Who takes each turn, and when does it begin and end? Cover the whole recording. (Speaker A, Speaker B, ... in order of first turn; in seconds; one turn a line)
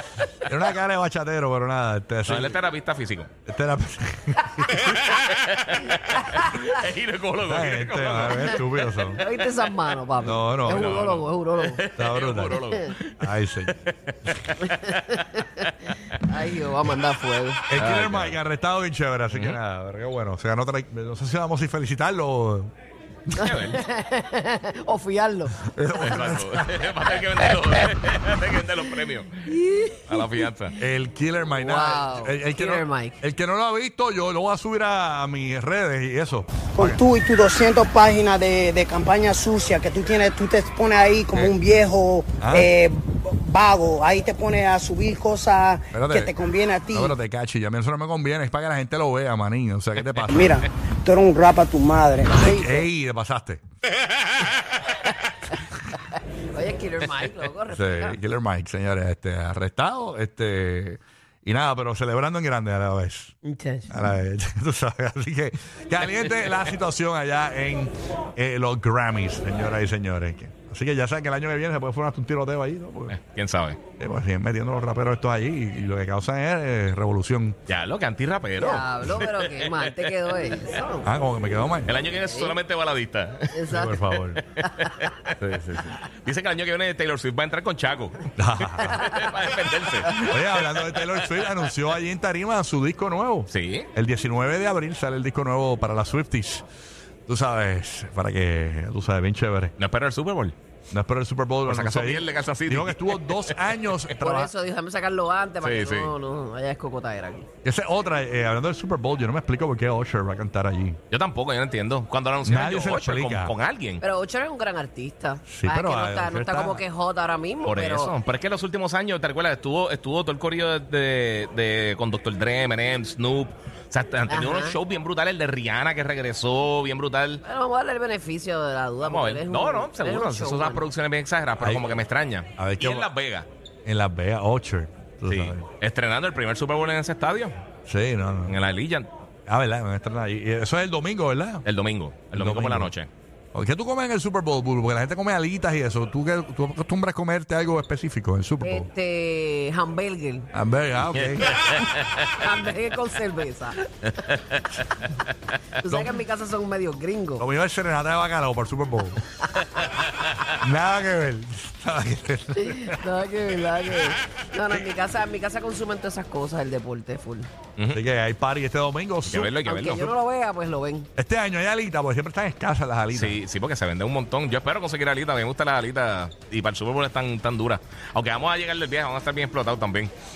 Speaker A: 0.4-2.6
Speaker B: 2.2-3.3
Speaker A: 3.5-4.8
Speaker B: 4.6-9.5
Speaker A: 7.4-9.2
Speaker C: 9.2-11.8
Speaker A: 10.2-10.9
Speaker B: 10.6-16.2
Speaker A: 11.9-12.6
Speaker C: 12.6-12.9
Speaker A: 13.2-14.5
Speaker C: 14.6-15.6
Speaker C: 16.3-17.6
Speaker A: 17.7-22.7
Speaker B: 17.7-18.4
Speaker B: 19.3-19.6
Speaker B: 23.3-23.9
Speaker C: 23.4-25.6
Speaker A: 25.6-26.7
Speaker B: 25.9-29.3
Speaker C: 29.5-30.4
Speaker B: 30.1-30.8
Speaker A: 30.8-37.0
Speaker C: 31.4-33.2
Speaker D: 36.7-47.1
Speaker A: 42.4-42.7
Speaker A: 45.9-46.3
Speaker A: 46.9-50.6
Speaker D: 50.3-52.9
Speaker A: 52.3-53.6
Speaker C: 56.1-58.2
Speaker A: 57.7-63.3
Speaker C: 63.4-63.9
Speaker A: 63.9-73.2
Speaker B: 73.1-73.8
Speaker A: 74.0-77.6
Speaker B: 77.7-80.6
Speaker C: 78.6-81.1
Speaker A: 81.0-81.9
Speaker B: 81.8-91.4
Speaker C: 82.3-82.6
Speaker C: 83.5-84.0
Speaker A: 83.7-84.4
Speaker A: 85.4-86.0
Speaker A: 88.3-89.0
Speaker C: 88.8-89.2
Speaker A: 90.1-96.6
Speaker B: 93.5-93.9
Speaker A: 97.3-99.7
Speaker B: 99.8-100.5
Speaker A: 100.9-104.5
Speaker B: 101.7-104.1
Speaker C: 104.1-107.5
Speaker B: 105.6-106.1
Speaker A: 107.6-111.0
Speaker B: 111.1-114.0
Speaker A: 112.4-113.5
Speaker C: 114.0-118.1
Speaker A: 115.5-116.8
Speaker B: 117.7-127.4
Speaker C: 124.3-124.8
Speaker C: 127.4-130.9
Speaker B: 129.0-133.5
Speaker A: 131.6-131.9
Speaker A: 132.6-133.1
Speaker A: 133.8-135.7
Speaker B: 135.3-137.6
Speaker A: 137.8-138.6
Speaker B: 138.5-139.1
Speaker A: 139.5-141.6
Speaker B: 141.6-143.1
Speaker A: 142.3-142.9
Speaker A: 143.5-148.9
Speaker C: 148.6-150.5
Speaker A: 150.5-151.7
Speaker B: 151.1-152.5
Speaker C: 152.2-153.8
Speaker B: 154.1-155.1
Speaker C: 155.8-157.4
Speaker A: 155.8-156.1
Speaker A: 157.4-159.2
Speaker A: 160.5-163.0
Speaker C: 162.6-167.5
Speaker A: 167.9-169.5
Speaker B: 169.2-170.1
Speaker C: 169.6-171.1
Speaker A: 171.2-173.4
Speaker B: 173.1-180.1